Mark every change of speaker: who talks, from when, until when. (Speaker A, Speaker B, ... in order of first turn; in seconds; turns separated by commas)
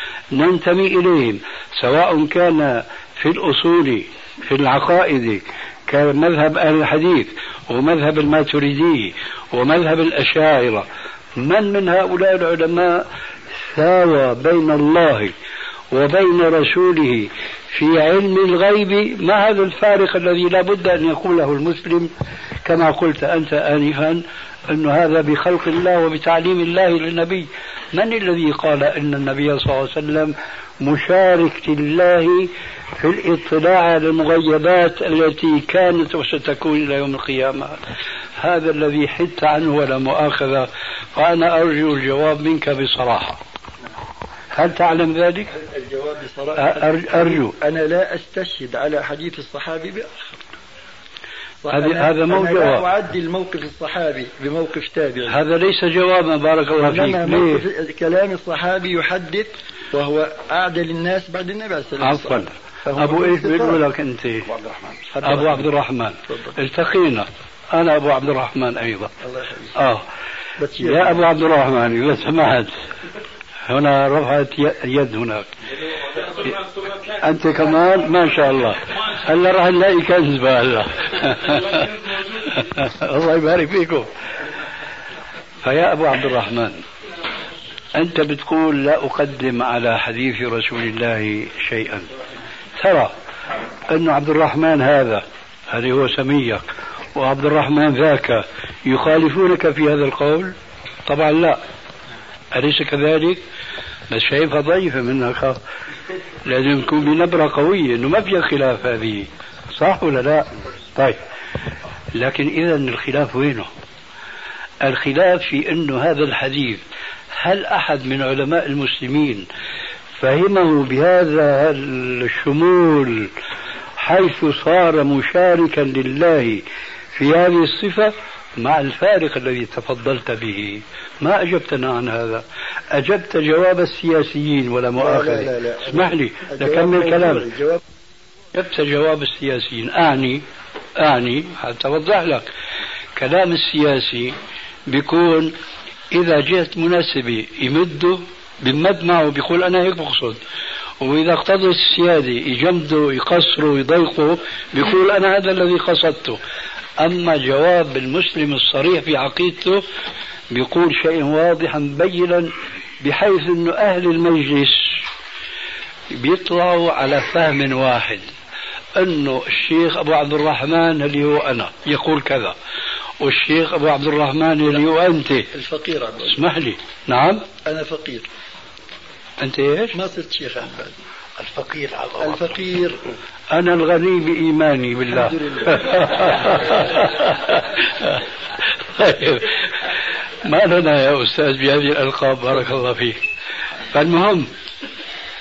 Speaker A: 0.3-13.1, Speaker A: 13.6-15.3, Speaker A: 15.9-22.1, Speaker A: 22.6-37.8, Speaker A: 38.4-43.4, Speaker A: 44.5-45.5, Speaker B: 45.5-50.3, Speaker A: 46.6-47.5, Speaker B: 51.6-55.4, Speaker A: 51.7-52.8, Speaker A: 55.3-57.6, Speaker B: 56.8-63.8, Speaker A: 62.0-69.1, Speaker B: 65.1-65.7, Speaker B: 66.3-66.6, Speaker B: 69.2-69.7, Speaker A: 69.7-70.0, Speaker B: 70.6-71.2, Speaker A: 70.8-72.7, Speaker A: 73.7-75.5, Speaker A: 77.2-84.1, Speaker A: 85.6-86.8, Speaker A: 87.9-92.1, Speaker A: 92.8-93.1, Speaker A: 93.9-96.6, Speaker A: 97.2-100.5, Speaker A: 101.1-101.6, Speaker A: 102.5-103.4, Speaker A: 104.1-105.6, Speaker A: 106.4-111.2, Speaker A: 112.2-113.7, Speaker A: 114.8-116.8, Speaker A: 117.4-119.5, Speaker A: 120.2-123.3, Speaker A: 124.0-126.6, Speaker A: 127.2-137.5, Speaker B: 135.0-137.8, Speaker A: 138.5-140.4, Speaker A: 141.0-142.4, Speaker A: 143.2-144.3, Speaker A: 144.9-145.6, Speaker A: 146.1-150.4, Speaker A: 151.0-156.4, Speaker A: 157.0-159.8, Speaker A: 160.5-165.0, Speaker A: 166.1-168.3, Speaker A: 168.9-172.5, Speaker A: 173.2-175.5, Speaker B: 175.5-176.4, Speaker A: 176.3-177.4, Speaker B: 177.7-178.3, Speaker A: 179.4-179.9, Speaker B: 179.9-180.9, Speaker A: 181.4-182.3, Speaker B: 182.2-183.0, Speaker A: 183.5-188.2, Speaker B: 185.1-187.0, Speaker A: 188.9-189.7, Speaker A: 190.4-193.2, Speaker A: 193.9-194.5